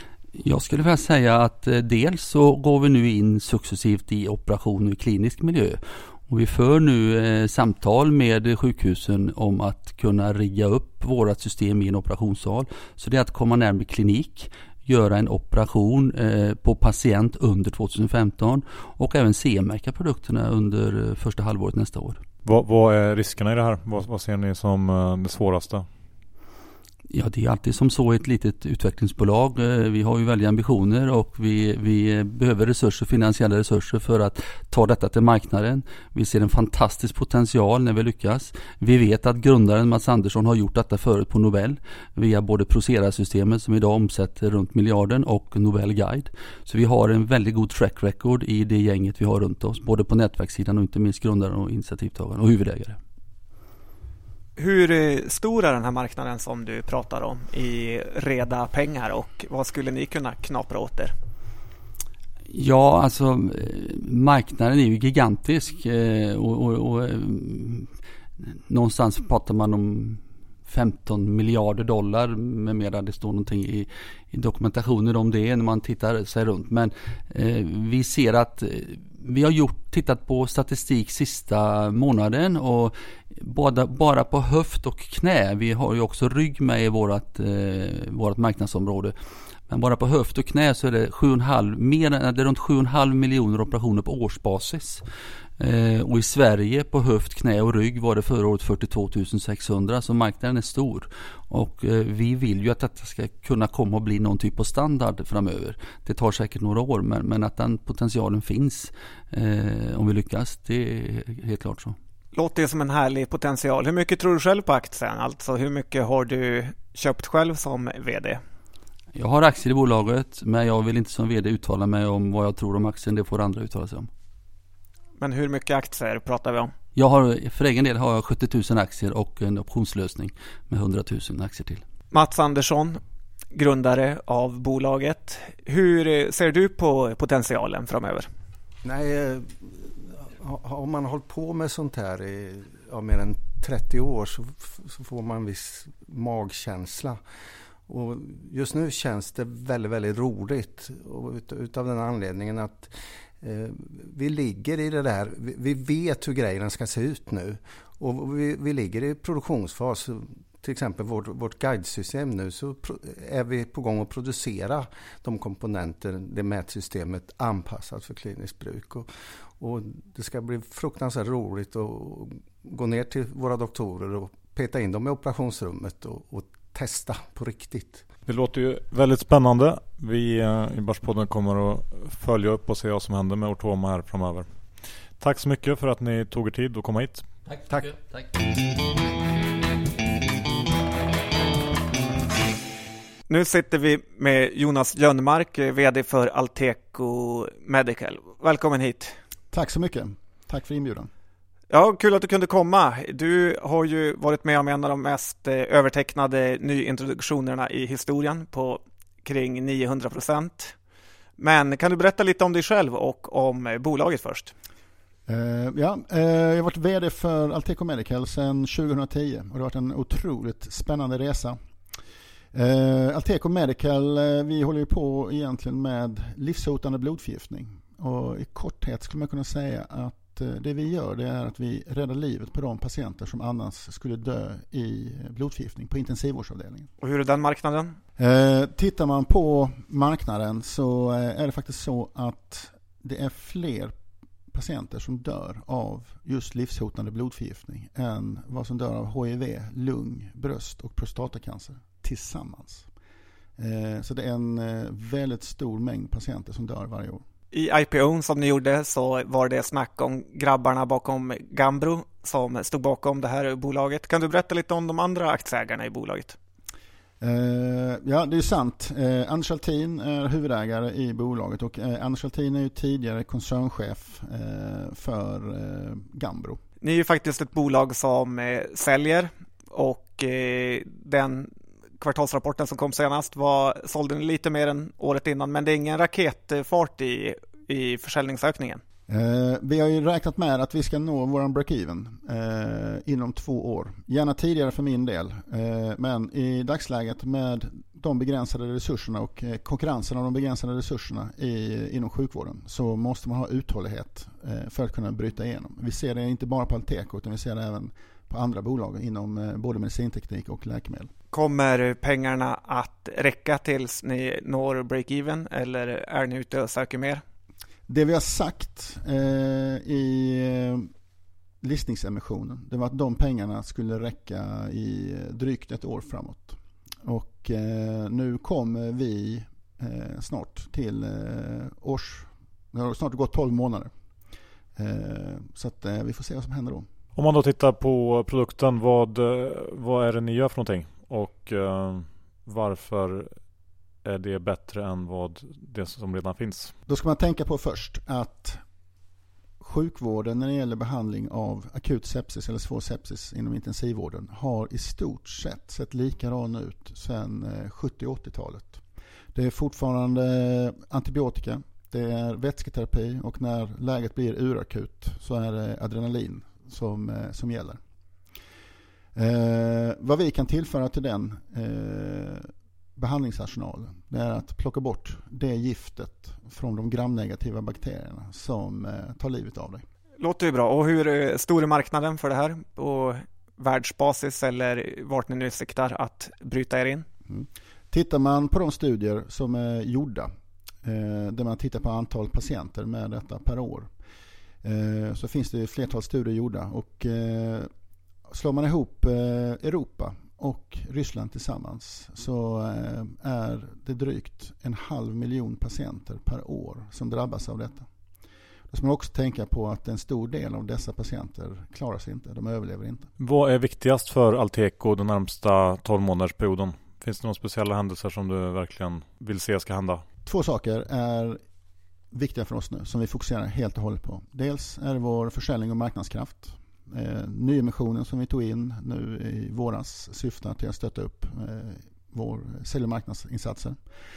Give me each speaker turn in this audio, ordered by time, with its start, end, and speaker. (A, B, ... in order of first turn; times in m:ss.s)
0:00.4-0:22.2 A
0:22.4-0:25.9 B
0:27.1-0:53.0 A
0:54.6-1:01.1 C
1:02.5-1:07.9 A
1:08.4-1:29.2 A
1:29.7-1:35.0 A
1:35.6-1:52.0 A
1:52.3-1:58.4 C
1:59.2-2:04.1 A
2:05.2-2:06.7 C
2:07.0-2:11.8 A
2:12.1-2:13.0 C
2:13.5-2:18.3 C
2:18.8-2:27.2 D
2:27.9-2:58.0 D
2:58.3-3:04.5 B
3:05.2-3:07.3 B
3:13.3-3:19.2 C
3:19.5-3:21.1 E
3:21.7-3:30.8 C
3:31.4-3:34.5 C
3:35.3-3:41.6 E
3:42.5-3:56.9 E
3:57.0-3:58.0 C
3:58.2-4:04.0 E
4:04.5-4:12.9 E
4:13.6-4:17.2 E
4:17.5-4:26.4 C
4:27.2-4:36.6 E
4:36.8-4:48.8 C
4:49.1-5:11.1 E
5:11.3-5:17.2 C
5:17.9-5:20.9 E
5:21.6-5:33.9 E
5:34.8-5:36.9 E
5:37.2-5:43.4 B
5:44.0-5:46.7 B
5:46.9-5:48.6 E
5:49.6-5:58.8 E
5:59.3-6:07.8 E
6:09.2-6:19.8 E
6:20.2-6:27.1 C
6:27.3-6:30.3 E
6:30.8-6:33.9 E
6:34.6-6:37.7 E
6:38.3-6:47.9 E
6:48.7-6:53.1 E
6:53.2-7:00.0 B
7:00.3-7:01.4 E
7:02.1-7:13.8 E